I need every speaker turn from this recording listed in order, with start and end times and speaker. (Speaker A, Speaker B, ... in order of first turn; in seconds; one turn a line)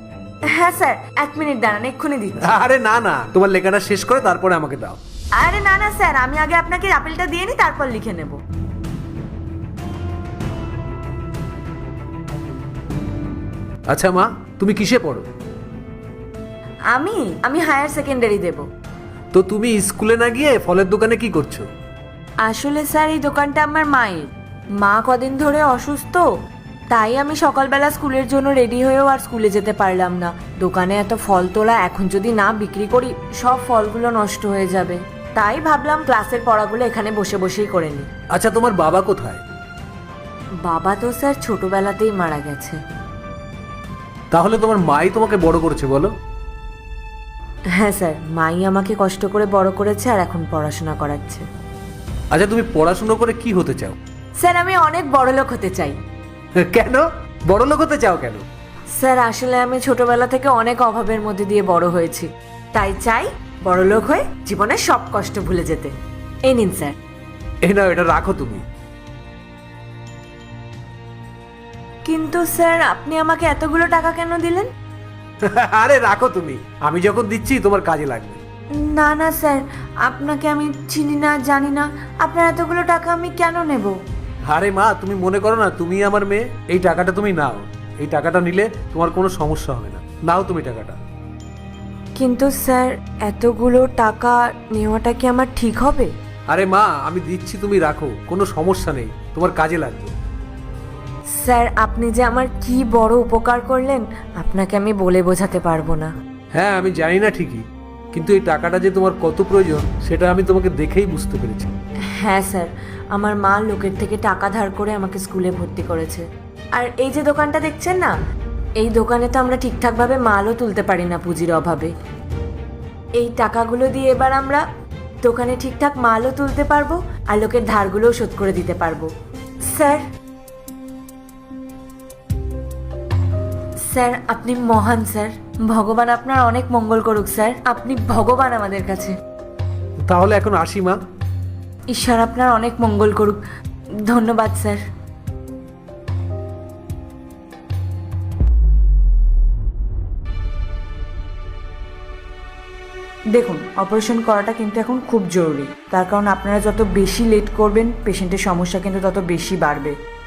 Speaker A: 0.5-2.5
Speaker B: 2.4-5.0
Speaker A: 5.4-8.4
Speaker B: 13.9-15.3
Speaker A: 16.9-18.6
Speaker B: 19.3-21.7
Speaker A: 22.4-24.3
Speaker A: 24.8-26.2
Speaker A: 26.9-38.1
Speaker B: 38.3-39.4
Speaker A: 40.6-42.8
Speaker B: 44.3-46.1
Speaker A: 47.8-51.4
Speaker B: 52.3-54.0
Speaker A: 54.4-56.0
Speaker B: 56.6-58.4
Speaker A: 59.0-65.9
Speaker A: 66.5-66.9
Speaker B: 67.6-68.6
Speaker A: 72.0-74.7
Speaker B: 75.4-78.4
Speaker A: 78.8-84.0
Speaker B: 84.5-91.0
Speaker A: 92.2-96.1
Speaker B: 96.5-100.2
Speaker A: 101.4-106.1
Speaker B: 106.5-111.7
Speaker A: 112.2-116.2
Speaker A: 116.8-118.1
Speaker A: 118.8-121.9
Speaker A: 123.2-124.6
Speaker A: 125.2-129.1
Speaker A: 129.7-130.0
Speaker A: 133.9-139.1
Speaker B: 140.0-141.0
Speaker A: 141.9-143.4
Speaker A: 144.1-144.8
Speaker A: 153.3-159.9